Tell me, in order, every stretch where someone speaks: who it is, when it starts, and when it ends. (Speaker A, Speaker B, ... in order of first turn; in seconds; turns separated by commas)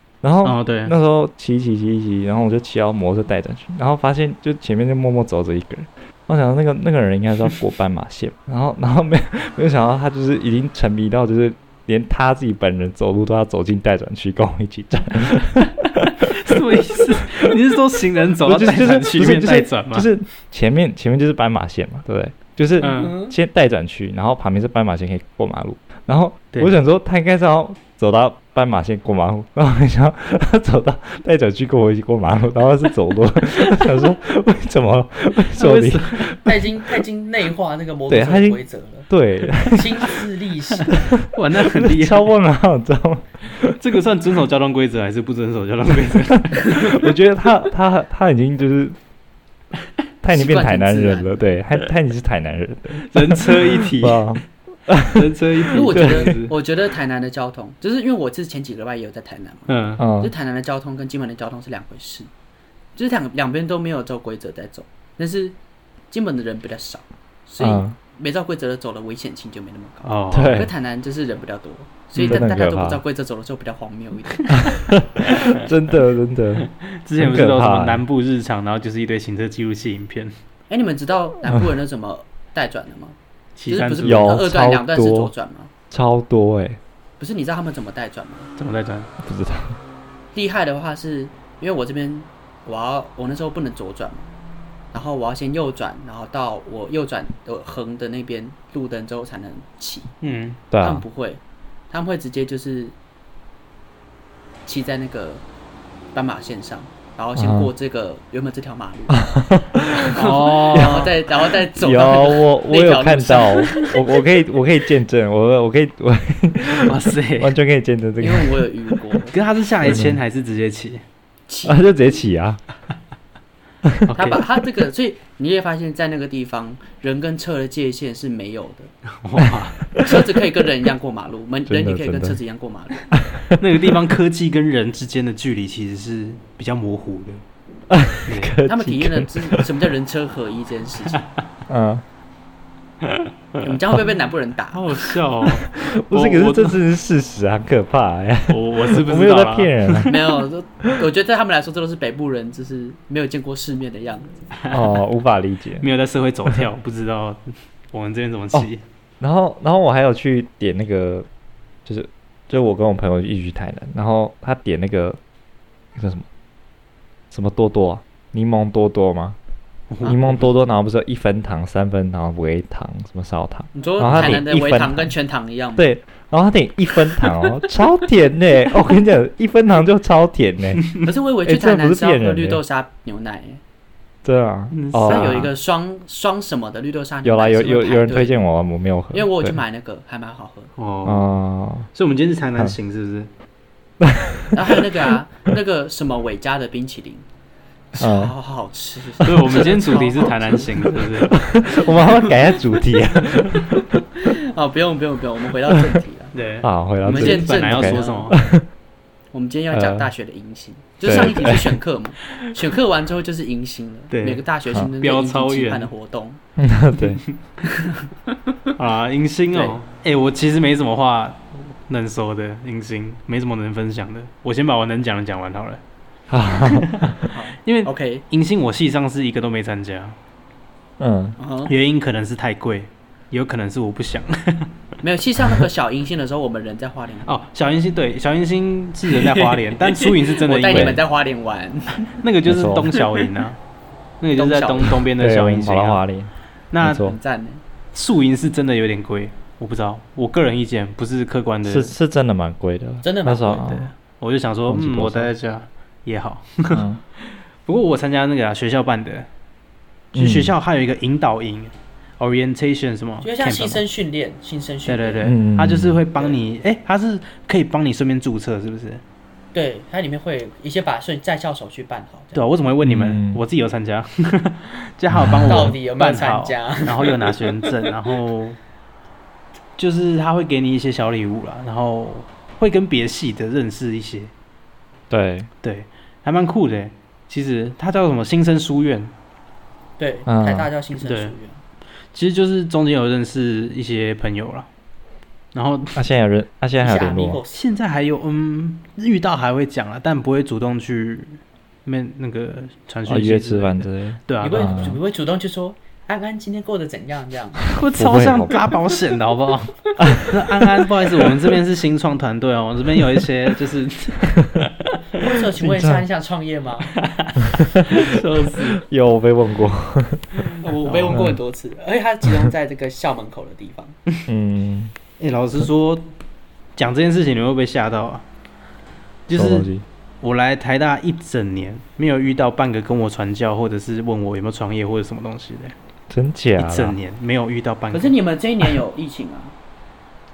Speaker A: 0.2-17.3, Speaker B: 0.4-0.9, Speaker B: 16.3-20.1, Speaker A: 18.4-36.4, Speaker B: 22.8-23.1, Speaker C: 22.8-23.3, Speaker B: 33.8-34.0, Speaker B: 35.6-36.4, Speaker C: 36.4-39.1, Speaker A: 38.1-39.9, Speaker C: 39.6-41.0, Speaker A: 41.0-43.8, Speaker B: 41.3-42.3, Speaker B: 43.8-47.0, Speaker A: 46.6-48.9, Speaker A: 50.2-56.3, Speaker C: 50.3-51.4, Speaker B: 52.9-54.4, Speaker B: 55.1-56.5, Speaker C: 55.7-62.3, Speaker B: 59.7-60.0, Speaker A: 60.0-60.3, Speaker C: 63.0-65.6, Speaker C: 66.1-74.7, Speaker A: 67.6-68.0, Speaker B: 70.0-70.7, Speaker A: 70.3-70.7, Speaker B: 72.2-72.4, Speaker A: 72.2-73.0, Speaker A: 74.7-78.0, Speaker B: 76.6-80.3, Speaker C: 80.7-83.2, Speaker B: 83.6-84.3, Speaker C: 83.7-85.7, Speaker A: 84.0-85.3, Speaker A: 85.9-86.8, Speaker C: 87.2-88.5, Speaker B: 88.6-89.1, Speaker A: 89.2-89.8, Speaker C: 90.3-94.3, Speaker C: 94.9-100.1, Speaker B: 100.2-100.6, Speaker A: 100.7-101.0, Speaker C: 100.8-103.0, Speaker C: 104.7-105.4, Speaker C: 106.1-109.3, Speaker A: 107.4-107.7, Speaker A: 109.2-110.2, Speaker C: 109.9-113.9, Speaker B: 110.1-111.2, Speaker A: 110.7-111.1, Speaker A: 111.8-118.6, Speaker B: 116.8-117.5, Speaker C: 118.2-119.3, Speaker B: 119.3-121.0, Speaker A: 119.8-120.2, Speaker C: 121.5-121.8, Speaker A: 121.6-122.6, Speaker B: 124.1-124.4, Speaker C: 124.1-128.9, Speaker B: 129.2-129.9, Speaker A: 129.4-130.2, Speaker C: 130.0-133.1, Speaker A: 131.7-132.4, Speaker A: 133.2-133.6, Speaker B: 133.6-137.4, Speaker A: 137.9-139.7, Speaker B: 138.2-138.6, Speaker C: 138.6-141.2, Speaker A: 141.7-142.0, Speaker B: 143.0-143.3, Speaker C: 143.6-144.8, Speaker B: 144.7-146.8, Speaker A: 145.5-150.1, Speaker B: 148.5-150.2, Speaker C: 150.1-154.4, Speaker B: 154.6-155.0, Speaker A: 154.7-155.9, Speaker B: 155.8-157.4, Speaker B: 157.9-158.8, Speaker A: 159.2-161.3, Speaker A: 161.9-165.2, Speaker A: 165.9-166.2, Speaker A: 167.3-169.4, Speaker B: 169.9-170.5, Speaker A: 170.1-175.1, Speaker C: 173.8-175.8, Speaker B: 174.0-174.4, Speaker A: 175.8-182.6, Speaker C: 181.0-183.6, Speaker A: 184.2-185.5, Speaker B: 184.7-185.4, Speaker C: 185.1-188.4, Speaker A: 187.2-189.6, Speaker C: 189.1-190.7, Speaker B: 190.8-191.3, Speaker A: 191.1-191.9, Speaker B: 191.9-193.3, Speaker A: 194.0-194.6, Speaker C: 194.5-197.2, Speaker C: 197.9-201.0, Speaker A: 198.0-198.3, Speaker B: 199.2-201.4, Speaker A: 199.3-199.6, Speaker A: 201.3-203.6, Speaker C: 201.7-206.3, Speaker B: 206.3-208.4, Speaker A: 206.6-208.7, Speaker C: 207.1-208.4, Speaker C: 209.3-216.4, Speaker A: 209.7-210.1, Speaker A: 211.0-211.8, Speaker B: 214.1-214.4, Speaker B: 215.0-215.9, Speaker A: 216.6-217.2, Speaker B: 217.0-217.3, Speaker B: 218.8-225.8, Speaker C: 219.5-219.8, Speaker A: 226.3-227.2, Speaker B: 226.7-227.1, Speaker C: 227.2-228.2, Speaker B: 227.6-230.2, Speaker A: 231.0-231.4, Speaker C: 231.4-231.7, Speaker B: 231.7-234.7, Speaker C: 235.0-237.4, Speaker B: 237.2-241.0, Speaker C: 239.1-242.2, Speaker A: 240.7-241.0, Speaker B: 242.2-243.6, Speaker A: 242.4-242.9, Speaker B: 244.2-246.0, Speaker C: 244.4-245.0, Speaker A: 245.2-246.3, Speaker B: 246.7-247.1, Speaker A: 246.8-247.2, Speaker C: 247.0-247.6, Speaker B: 247.9-251.9, Speaker A: 251.6-253.9, Speaker C: 253.0-253.7, Speaker B: 253.7-256.9, Speaker A: 254.7-255.3, Speaker A: 256.7-257.0, Speaker B: 257.6-259.3, Speaker B: 260.1-263.9, Speaker A: 260.1-260.5, Speaker C: 263.2-265.3, Speaker B: 264.9-269.0, Speaker A: 265.2-266.0, Speaker C: 269.5-272.4, Speaker B: 272.4-278.6, Speaker A: 272.8-273.4, Speaker A: 275.1-275.7, Speaker C: 275.5-277.7, Speaker B: 279.8-284.3, Speaker A: 285.1-285.5, Speaker B: 285.6-289.1, Speaker C: 290.0-291.6, Speaker A: 290.2-290.7, Speaker B: 291.0-291.3, Speaker B: 292.1-294.7, Speaker B: 295.5-296.0, Speaker A: 296.0-297.4, Speaker C: 296.8-297.6, Speaker B: 297.5-305.0, Speaker A: 303.1-305.0, Speaker C: 304.4-307.7, Speaker B: 307.7-314.9, Speaker A: 307.9-308.6, Speaker A: 310.0-310.3, Speaker C: 310.0-310.3, Speaker C: 315.2-316.9, Speaker A: 315.6-316.0, Speaker B: 317.0-318.8, Speaker A: 317.6-318.0, Speaker A: 318.6-320.3, Speaker C: 320.6-324.0, Speaker B: 320.9-321.2, Speaker A: 321.1-321.4, Speaker A: 324.3-324.9, Speaker B: 325.2-326.1, Speaker B: 326.8-328.2, Speaker B: 329.3-329.7, Speaker A: 329.3-329.9, Speaker B: 330.2-335.8, Speaker A: 336.1-337.0, Speaker B: 336.6-338.1, Speaker C: 337.9-339.5